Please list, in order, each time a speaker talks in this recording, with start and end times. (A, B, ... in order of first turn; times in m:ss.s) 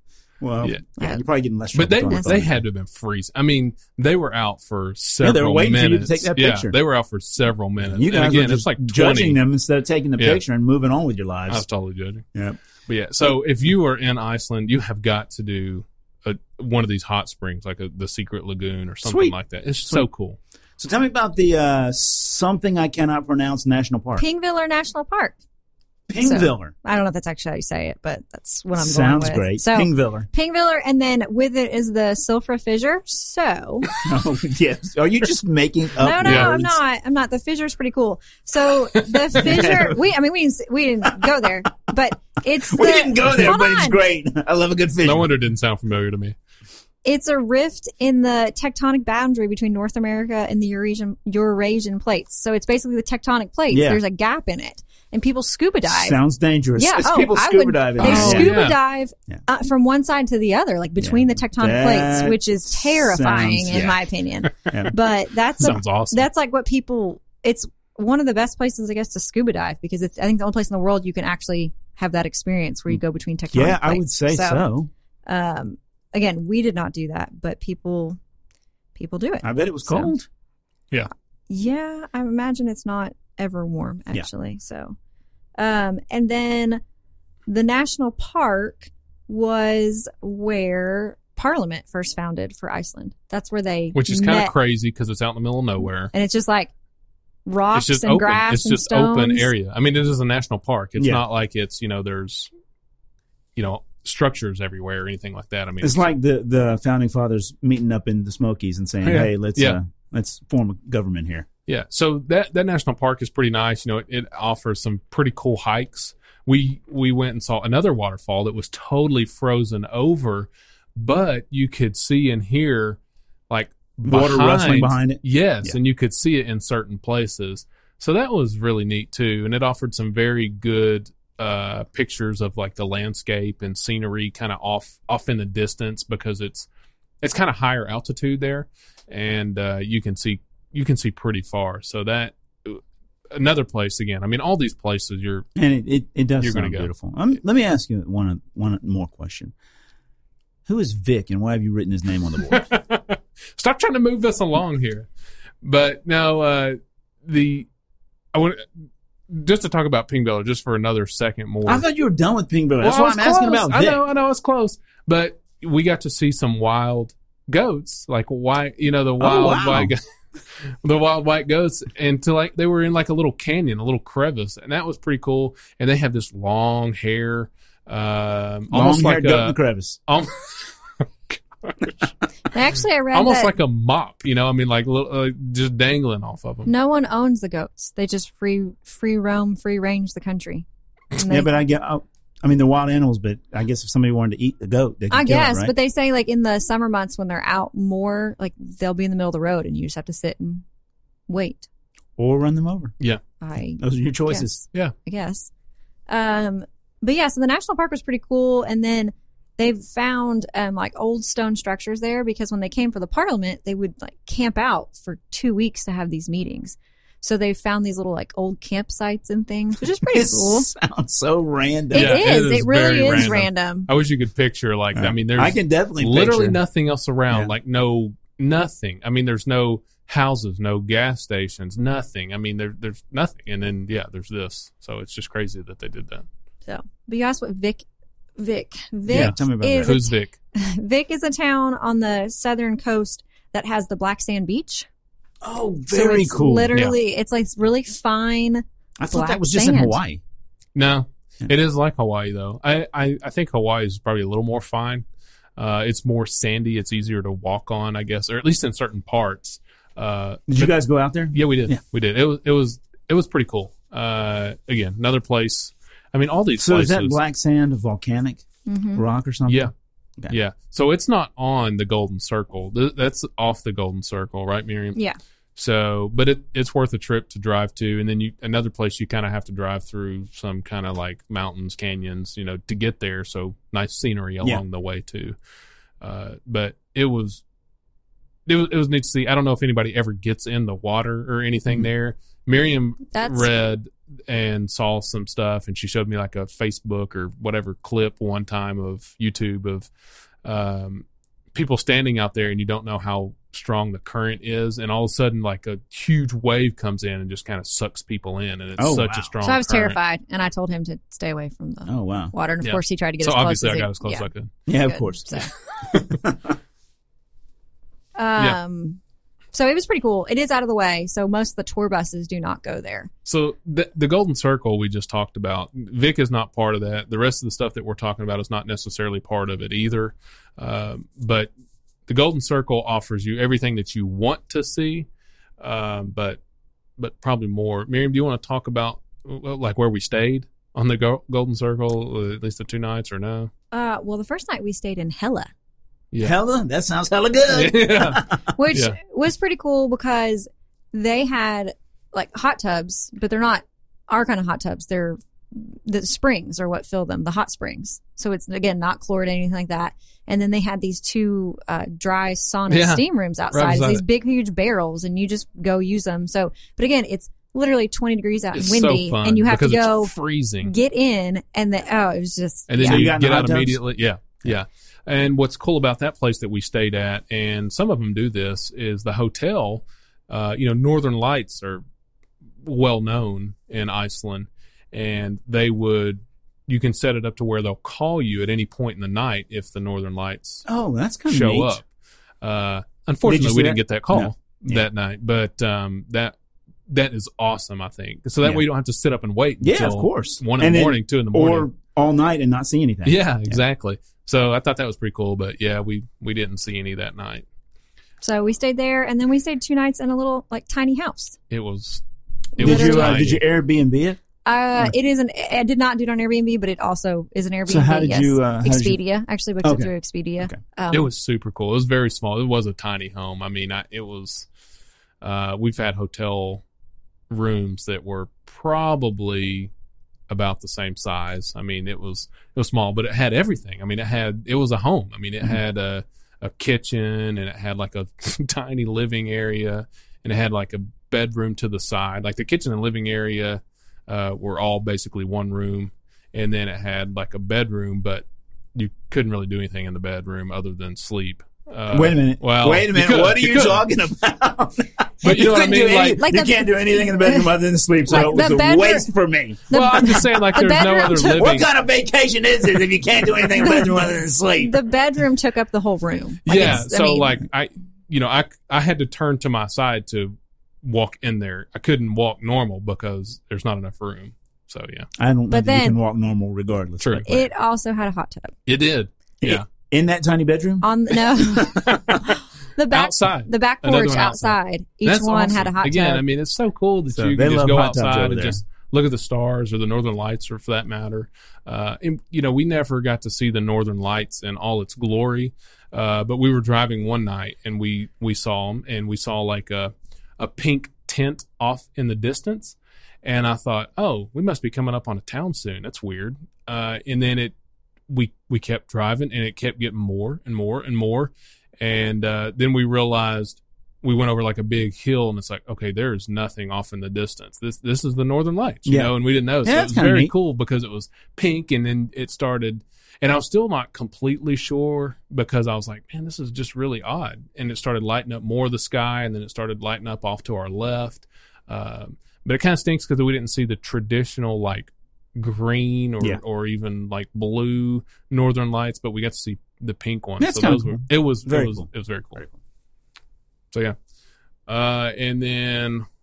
0:00.4-0:02.6 A
0:00.6-0:00.9 B
0:01.0-0:01.2 C
0:01.7-0:09.4 B
0:02.1-0:02.3 C
0:05.2-0:06.7 A
0:07.8-0:11.6 A
0:11.5-0:12.2 B
0:12.9-0:20.4 B
0:19.0-0:19.4 A
0:20.8-0:24.2 A
0:24.2-0:25.4 C
0:26.1-0:26.7 A
0:26.2-0:33.9 C
0:28.8-0:30.3 A
0:34.0-0:36.8 A
0:36.0-0:44.0 C
0:36.2-0:36.5 B
0:39.4-0:40.0 A
0:42.6-0:45.3 A
0:45.0-0:46.3 B
0:47.0-0:56.2 C
0:53.7-0:54.0 A
0:55.9-0:58.6 A
0:56.8-1:14.6 C
0:58.0-0:58.8 B
1:01.0-1:04.0 A
1:04.7-1:04.9 A
1:05.6-1:06.2 B
1:13.5-1:14.9 A
1:15.2-1:18.2 C
1:19.0-1:20.1 C
1:19.4-1:20.3 A
1:21.5-1:25.0 C
1:25.6-1:26.8 C
1:27.5-1:34.5 C
1:33.9-1:36.1 B
1:36.1-1:36.7 C
1:37.4-1:39.5 C
1:37.7-1:42.5 B
1:41.0-1:41.2 A
1:43.6-1:46.1 B
1:45.8-1:51.5 A
1:49.0-1:49.8 B
1:51.7-2:03.0 B
2:03.5-2:16.7 B
2:04.0-2:05.8 A
2:17.2-2:22.8 B
2:23.3-2:25.4 B
2:25.6-2:29.5 A
2:26.4-2:26.9 B
2:30.6-2:32.6 A
2:32.4-2:35.1 B
2:35.6-2:37.7 B
2:38.3-2:38.6 B
2:39.3-2:41.8 B
2:41.6-2:44.0 A
2:42.8-2:50.0 B
2:49.2-2:49.9 A
2:50.8-3:00.5 B
2:58.7-3:00.0 A
3:01.3-3:02.1 B
3:02.5-3:03.5 C
3:03.1-3:06.7 B
3:06.6-3:11.5 C
3:11.3-3:15.7 A
3:15.1-3:20.6 C
3:21.3-3:21.7 C
3:22.2-3:22.9 A
3:23.4-3:25.5 C
3:23.8-3:24.6 A
3:26.1-3:40.7 C
3:40.0-3:42.2 A
3:41.9-3:43.9 C
3:41.9-3:56.2 B
3:44.9-3:46.6 A
3:56.7-3:57.8 C
3:58.4-4:04.9 C
3:59.1-4:00.0 A
3:59.1-4:00.3 B
4:05.4-4:06.8 A
4:05.9-4:10.0 C
4:09.0-4:10.2 A
4:10.7-4:15.0 B
4:15.6-4:20.7 B
4:20.5-4:21.8 A
4:21.3-4:27.2 B
4:26.6-4:29.7 A
4:28.6-4:29.0 C
4:29.5-4:29.7 B
4:30.3-4:35.0 B
4:35.6-4:45.4 B
4:46.0-4:47.4 B
4:48.5-4:59.9 B
4:53.1-4:53.5 C
5:00.4-5:10.0 B
5:08.8-5:09.3 A
5:09.4-5:14.3 C
5:11.8-5:12.3 A
5:12.6-5:14.5 B
5:14.7-5:15.4 A
5:14.8-5:15.5 C
5:16.1-5:16.5 A
5:18.2-5:19.0 C
5:19.5-5:23.1 C
5:23.2-5:31.5 B
5:32.1-5:35.1 B
5:35.6-5:36.4 B
5:37.0-5:43.5 B
5:43.7-5:45.5 C
5:46.2-5:48.4 A
5:47.5-5:49.0 B
5:48.6-6:13.1 C
6:02.7-6:04.0 B
6:08.5-6:10.7 B
6:12.7-6:21.8 B
6:12.8-6:13.8 A
6:22.6-6:30.6 B
6:30.6-6:31.8 A
6:31.3-6:31.8 B
6:32.4-6:36.3 B
6:33.2-6:34.8 A
6:36.9-6:41.7 B
6:39.6-6:43.6 A
6:43.0-6:47.4 B
6:48.2-6:51.4 C
6:51.5-6:52.0 B
6:52.6-6:53.4 B
6:52.6-6:53.3 C
6:52.6-6:54.2 A
6:54.4-7:01.1 C
6:57.7-6:59.0 A
6:59.6-6:59.9 A
7:00.9-7:04.5 B
7:05.2-7:06.6 B
7:07.3-7:09.7 B
7:10.3-7:33.8 B
7:31.9-7:40.2 A
7:35.2-7:36.2 B
7:36.0-7:37.5 C
7:38.1-7:39.1 C
7:39.7-7:41.6 C
7:39.7-7:41.7 B
7:41.1-7:44.8 A
7:43.6-7:44.1 C
7:44.6-7:47.3 C
7:46.4-7:55.1 B
7:55.2-7:57.4 A
7:55.5-7:56.0 C
7:57.0-7:57.5 B
7:57.2-7:58.5 C
7:58.6-7:59.6 B
7:59.4-8:02.0 A
8:00.8-8:06.2 C
8:01.7-8:02.3 B
8:02.9-8:27.5 B
8:07.1-8:08.6 A
8:28.1-9:02.4 B
8:38.8-8:40.3 A
9:00.4-9:01.8 A
9:04.7-9:06.0 B